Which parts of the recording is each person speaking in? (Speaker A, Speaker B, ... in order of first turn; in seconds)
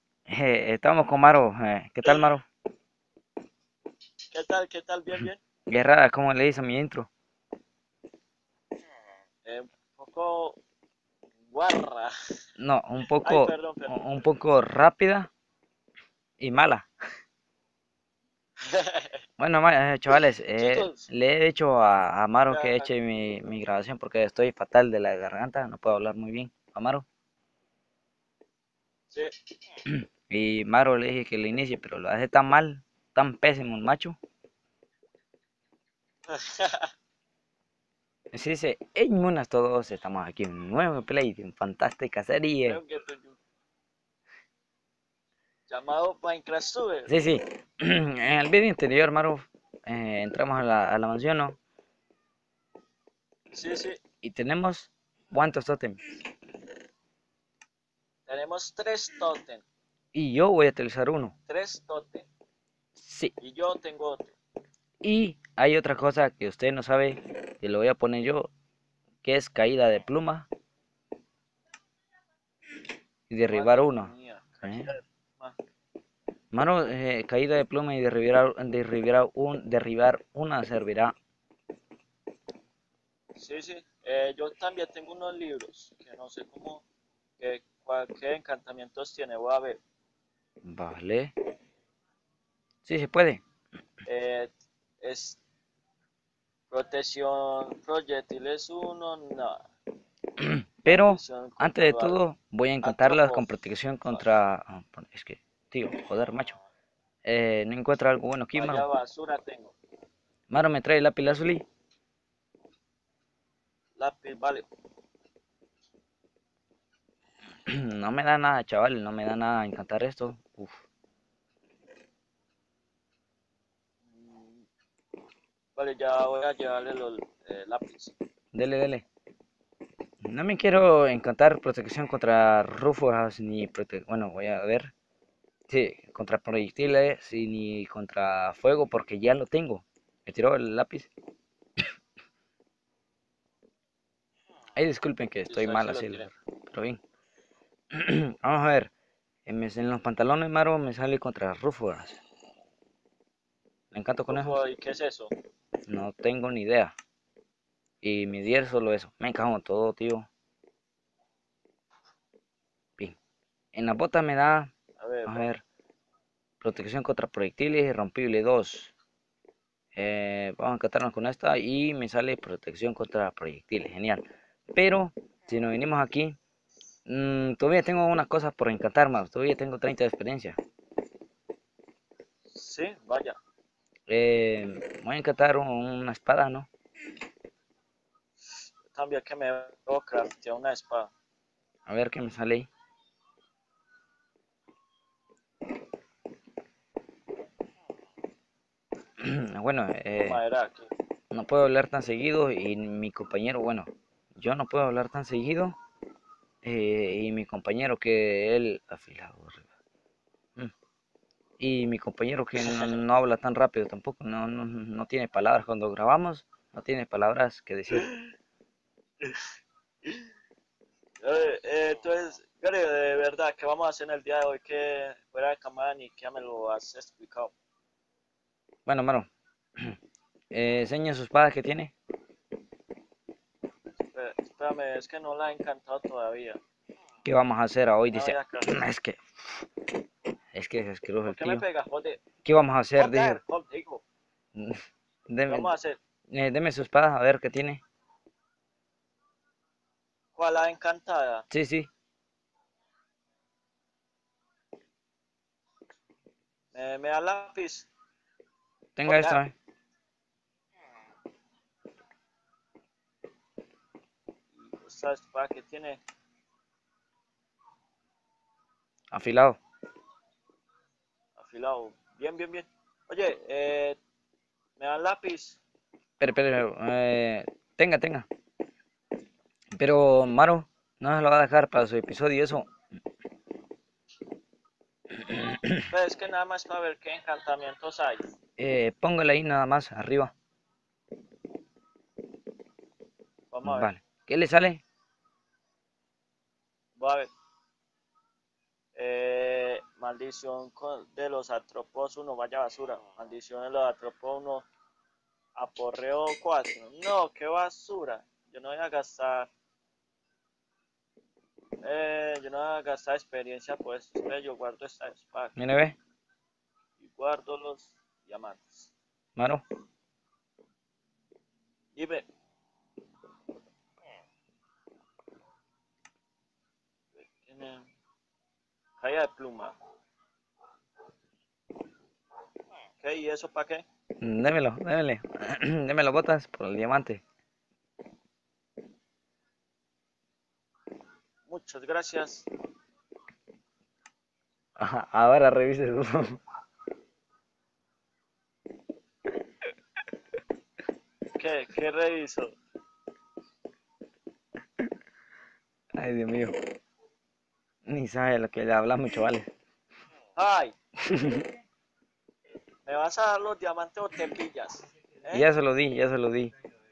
Speaker A: 0.3-2.5, 5.7-7.1, 12.6-15.3, 16.4-16.9, 19.4-27.1, 29.9-34.2, 38.3-42.8, 47.1-51.5, 54.2-56.0, 60.1-61.3, 63.0-63.3, 65.0-68.5, 69.2-70.5, 73.3-74.1, 74.6-74.9, 76.5-81.1, 90.6-91.3, 92.8-93.4, 100.4-106.6, 107.3-108.9, 110.5-111.7, 117.7-120.8, 128.5-129.0, 130.2-134.9, 135.7-141.1, 144.8-147.0, 147.9-148.9, 149.5-152.2, 153.9-154.5, 155.9-156.9, 158.0-160.3, 163.8-164.7, 165.3-165.6, 166.6-168.9, 170.0-174.2, 174.7-176.4, 177.1-180.6, 184.1-186.7, 191.9-192.7, 199.2-200.4, 201.3-205.8, 206.6-209.7, 211.6-218.1, 228.9-230.0, 230.5-231.9, 237.2-239.6, 240.6-241.6, 242.4-243.4, 244.6-245.7, 246.3-247.8, 251.5-251.9, 259.0-259.5, 269.1-269.6, 276.2-278.3, 279.8-282.7, 285.2-285.9, 288.6-290.3, 293.7-294.8, 315.6-316.0, 319.4-319.6, 334.2-337.2, 344.8-346.4, 356.0-356.5, 357.9-359.5, 361.0-361.4, 365.3-366.5
Speaker B: 4.3-5.4, 9.5-10.6, 11.5-12.1, 13.2-14.2, 18.6-19.2, 20.6-21.1, 22.5-22.9, 36.3-36.9, 42.6-43.4, 45.7-47.1, 53.5-54.0, 58.3-59.6, 61.5-62.3, 63.4-64.3, 73.5-75.6, 83.3-86.8, 87.4-89.8, 94.1-95.4, 96.7-99.6, 100.9-102.2, 102.8-103.5, 108.5-109.7, 114.0-114.7, 124.1-124.7, 125.8-128.2, 145.5-146.3, 154.3-155.3, 165.0-165.5, 182.5-183.4, 188.5-191.1, 200.2-200.9, 212.6-213.0, 221.2-227.5, 234.1-236.6, 238.1-238.8, 241.2-242.2, 243.0-244.0, 245.5-246.0, 250.4-251.5, 256.7-257.9, 259.1-259.4, 264.6-266.0, 271.4-274.0, 274.8-275.6, 285.9-288.2, 293.5-293.9, 297.0-297.3, 299.0-304.6, 305.6-309.5, 311.8-315.6, 317.0-318.9, 322.0-322.3, 327.3-327.9, 329.0-329.8, 333.0-333.8, 341.5-342.5, 351.4-352.5, 360.4-360.7, 362.9-365.5